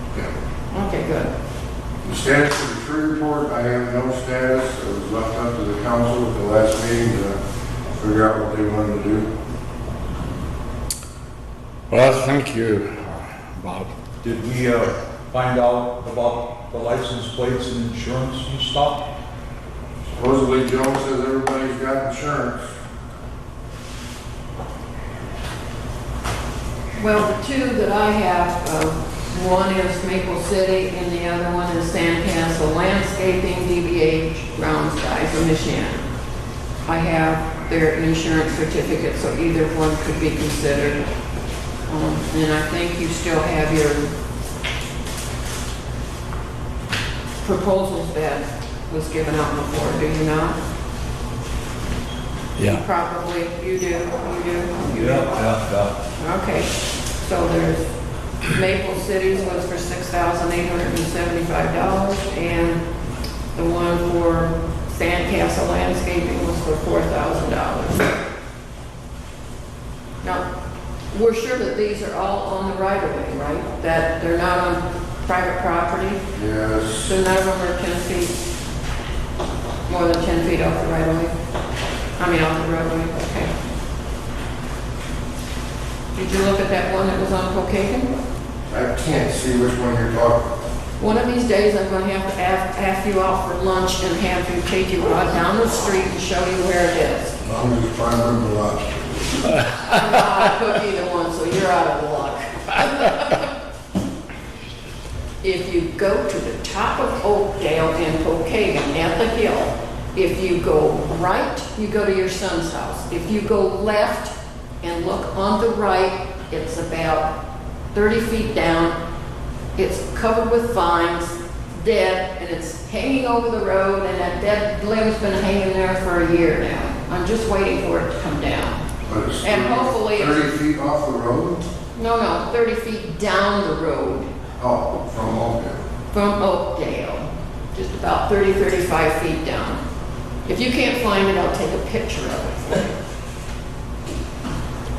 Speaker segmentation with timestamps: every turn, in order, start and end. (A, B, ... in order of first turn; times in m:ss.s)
0:00.7-0:01.3 A
0:02.0-0:07.4 B
0:08.0-0:09.3 B
0:11.9-0:13.9 C
0:14.3-0:14.8 D
0:15.3-0:18.9 D
0:20.2-0:22.7 B
0:27.0-0:36.1 A
0:36.8-0:41.0 A
0:41.9-0:44.1 A
0:47.4-0:50.6 A
0:52.6-0:52.8 C
0:52.7-0:55.4 A
0:55.0-0:55.9 D
0:56.2-0:57.9 A
0:58.4-1:02.8 A
1:03.6-1:08.2 A
1:11.1-1:16.2 A
1:16.4-1:17.1 B
1:17.0-1:18.3 A
1:19.9-1:21.3 A
1:22.2-1:23.5 A
1:26.1-1:28.1 A
1:28.7-1:30.5 B
1:31.0-1:37.4 A
1:37.4-1:39.4 B
1:39.8-1:43.5 A
1:45.4-1:57.3 A
1:57.9-1:59.0 A
1:59.8-2:08.8 A
2:09.1-2:11.7 B
2:09.4-2:10.5 A
2:12.0-2:14.3 A
2:14.6-2:15.8 B
2:16.1-2:19.8 A
2:20.5-2:22.9 A